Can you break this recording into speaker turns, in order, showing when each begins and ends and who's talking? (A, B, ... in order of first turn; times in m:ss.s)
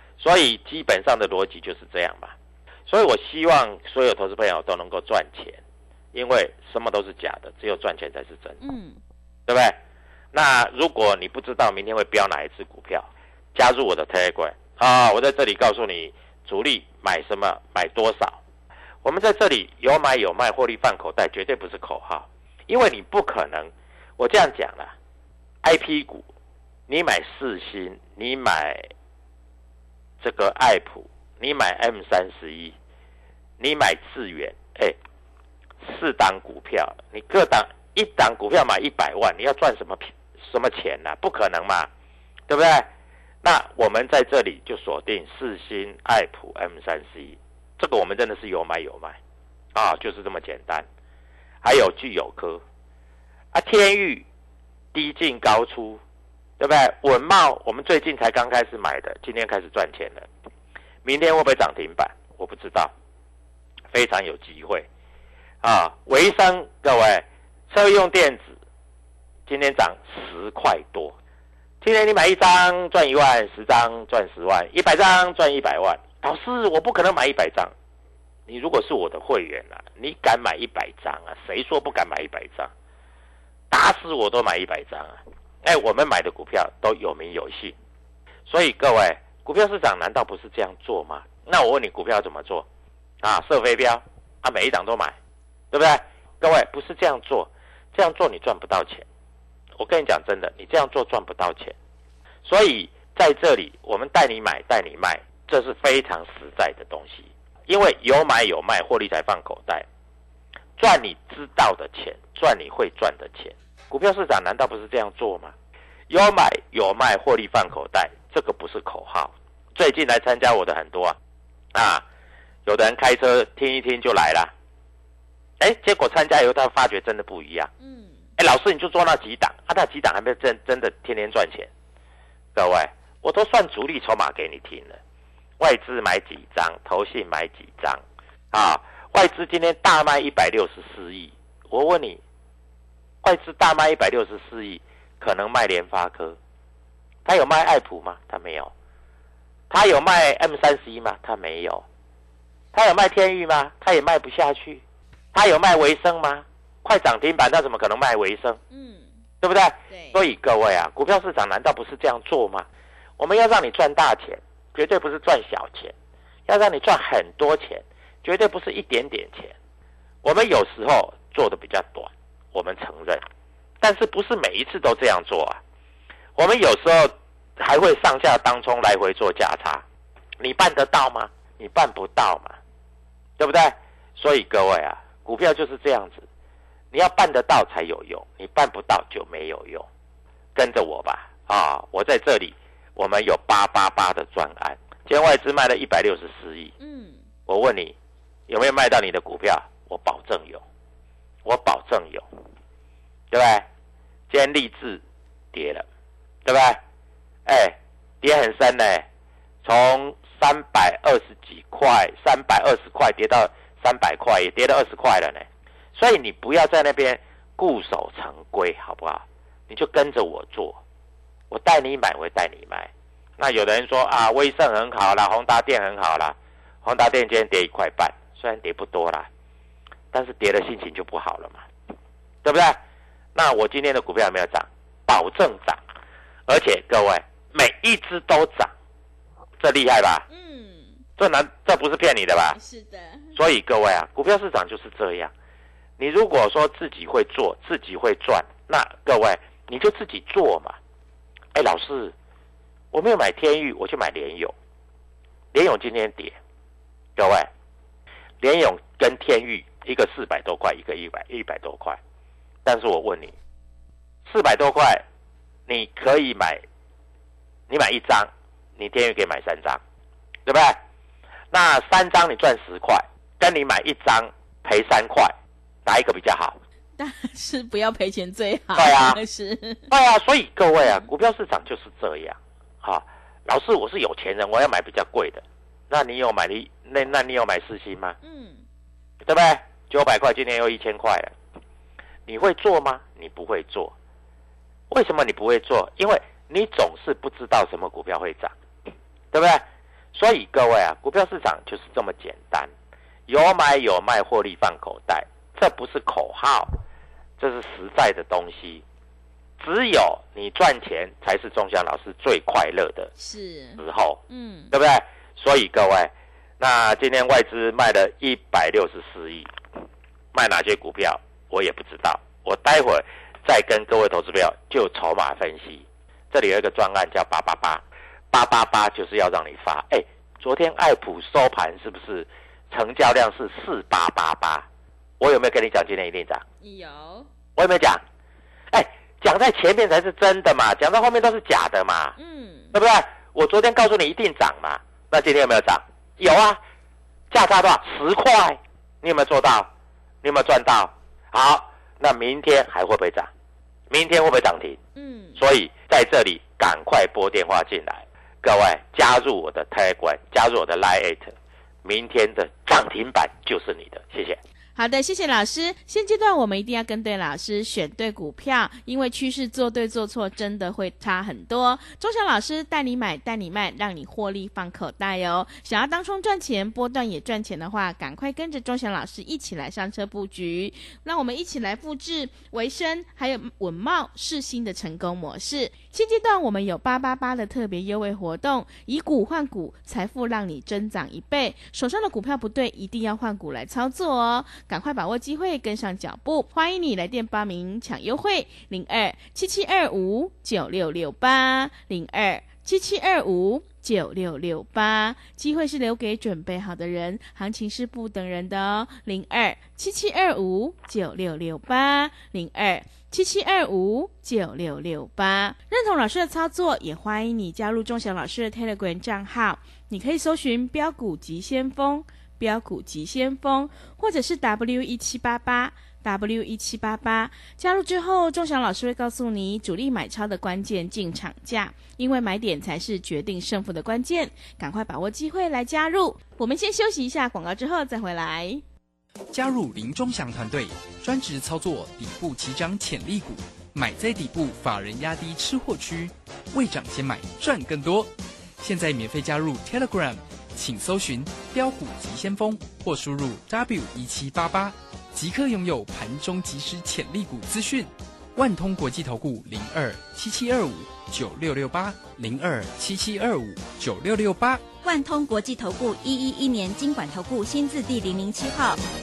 0:00.2-0:02.3 A
0:02.9-0:05.6 A
0:06.1-0:08.6 A
0:08.6-0:09.0 B
0:09.5-0:09.8 A
0:10.3-0:18.4 A
0:19.0-0:24.9 A
0:25.6-0:26.2 A
0:26.9-0:28.9 A
0:30.2-0:32.7 A
0:33.6-0:35.0 A
0:35.8-0:41.9 A
0:42.5-0:42.9 A
0:43.4-0:49.2 A
0:49.7-0:50.8 A
0:51.6-0:52.6 A
0:53.5-0:54.2 A
0:54.9-0:56.0 A
0:56.6-1:00.3 A
1:01.0-1:02.9 A
1:03.9-1:04.9 A
1:05.6-1:08.6 A
1:09.5-1:11.2 A
1:11.8-1:17.7 A
1:18.5-1:22.7 A
1:23.7-1:27.8 A
1:28.5-1:32.7 A
1:33.2-1:35.2 A
1:35.7-1:39.0 A
1:39.8-1:41.7 A
1:42.4-1:49.8 A
1:50.8-1:55.5 A
1:56.1-2:01.2 A
2:01.7-2:02.0 A
2:02.6-2:04.5 A
2:05.6-2:07.7 A
2:07.8-2:08.2 B
2:08.4-2:11.7 A
2:12.5-2:15.0 A
2:15.6-2:22.2 A
2:23.2-2:26.4 A
2:27.2-2:28.7 A
2:29.7-2:31.8 A
2:32.7-2:34.8 A
2:35.3-2:38.6 A
2:38.7-2:39.1 B
2:39.4-2:42.7 A
2:39.9-2:40.2 B
2:43.2-2:45.9 A
2:46.5-2:49.6 A
2:50.2-2:53.2 A
2:53.8-2:55.6 A
2:56.4-2:59.8 A
3:00.4-3:02.6 A
3:03.4-3:06.3 A
3:06.9-3:09.9 A
3:10.5-3:16.7 A
3:16.8-3:17.2 B
3:17.5-3:18.0 A
3:18.5-3:20.6 A
3:21.4-3:22.2 A
3:23.3-3:23.6 A
3:24.3-3:25.0 A
3:25.5-3:25.8 A
3:26.4-3:26.8 A
3:27.4-3:29.1 A
3:29.6-3:40.8 A
3:41.5-3:49.3 A
3:50.1-3:51.6 A
3:52.4-3:52.8 A
3:53.3-3:55.8 A
3:56.5-3:58.7 A
3:59.6-4:00.2 A
4:00.3-4:01.0 B
4:01.2-4:02.6 A
4:02.5-4:03.3 B
4:03.3-4:05.3 A
4:06.0-4:10.8 A
4:11.5-4:12.1 A
4:12.9-4:14.5 A
4:15.5-4:16.4 A
4:17.2-4:17.5 A
4:18.4-4:22.0 A
4:22.6-4:23.3 A
4:24.2-4:25.0 A
4:25.7-4:26.6 A
4:27.7-4:29.8 A
4:30.4-4:30.8 A
4:31.5-4:35.3 A
4:35.8-4:36.6 A
4:37.0-4:39.9 B
4:38.7-4:39.2 A
4:39.9-4:48.2 A
4:48.2-4:48.6 B
4:49.2-4:51.3 A
4:52.3-4:53.9 A
4:54.9-4:58.5 A
4:59.3-5:02.7 A
5:03.3-5:06.8 A
5:07.4-5:08.8 A
5:09.6-5:13.1 A
5:13.2-5:14.7 B
5:13.8-5:19.5 A
5:20.3-5:34.7 A
5:35.2-5:36.4 A
5:36.6-5:37.3 B
5:37.6-5:38.0 A
5:38.7-5:42.1 A
5:42.2-5:42.7 B
5:42.7-5:46.6 A
5:47.3-5:49.7 A
5:50.2-5:53.3 A
5:53.9-5:54.8 A
5:55.0-5:55.4 B
5:55.4-6:04.4 A
6:04.8-7:18.6 B
7:19.3-7:44.7 C
7:44.8-7:48.8 D